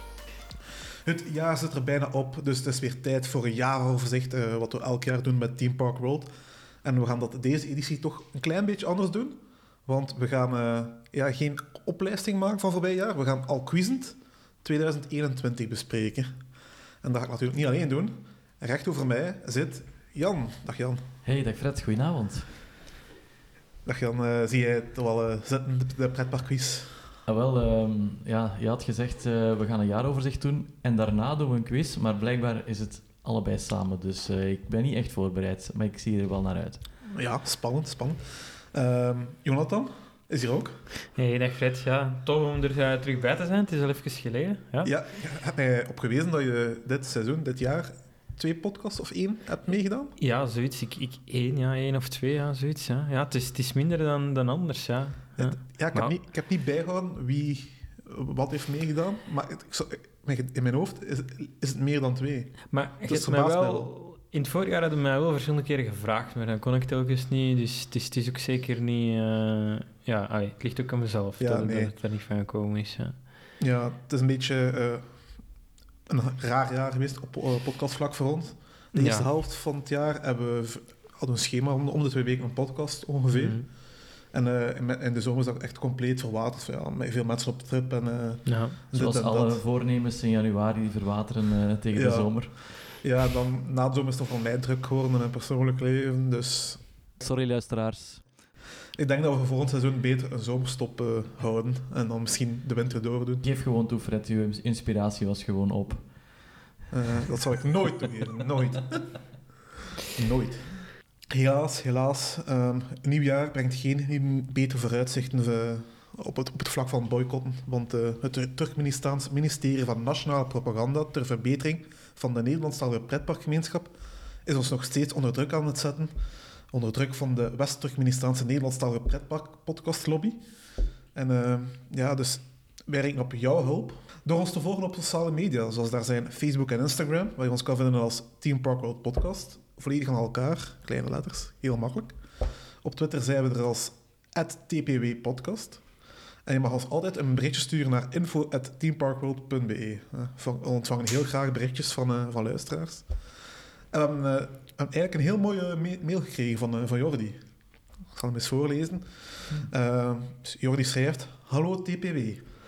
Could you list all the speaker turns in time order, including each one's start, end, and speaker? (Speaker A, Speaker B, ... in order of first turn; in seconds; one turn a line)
Speaker A: 1.1-6.3
Speaker A: 6.8-16.3
Speaker A: 17.0-21.0
Speaker B: 21.2-22.5
Speaker A: 23.9-27.0
Speaker B: 27.3-36.8
Speaker A: 37.1-40.8
Speaker C: 41.1-44.9
Speaker A: 44.8-50.1
Speaker C: 50.2-56.1
Speaker A: 55.4-63.9
Speaker C: 62.7-73.2
Speaker A: 71.4-71.9
Speaker A: 73.6-75.1
Speaker A: 76.1-83.6
Speaker C: 79.0-79.3
Speaker C: 83.3-83.7
Speaker A: 84.3-89.6
Speaker C: 88.5-88.8
Speaker B: 88.9-92.5
Speaker A: 91.9-92.3
Speaker A: 93.0-96.8
Speaker B: 97.2-98.2
Speaker A: 99.0-103.5
Speaker B: 103.4-106.0
Speaker A: 106.9-109.1
Speaker A: 110.2-110.7
Speaker A: 111.3-126.1
Speaker A: 126.7-130.4
Speaker A: 131.2-142.2
Speaker A: 142.8-145.8
Speaker A: 146.5-153.1
Speaker A: 153.9-157.4
Speaker A: 158.1-162.4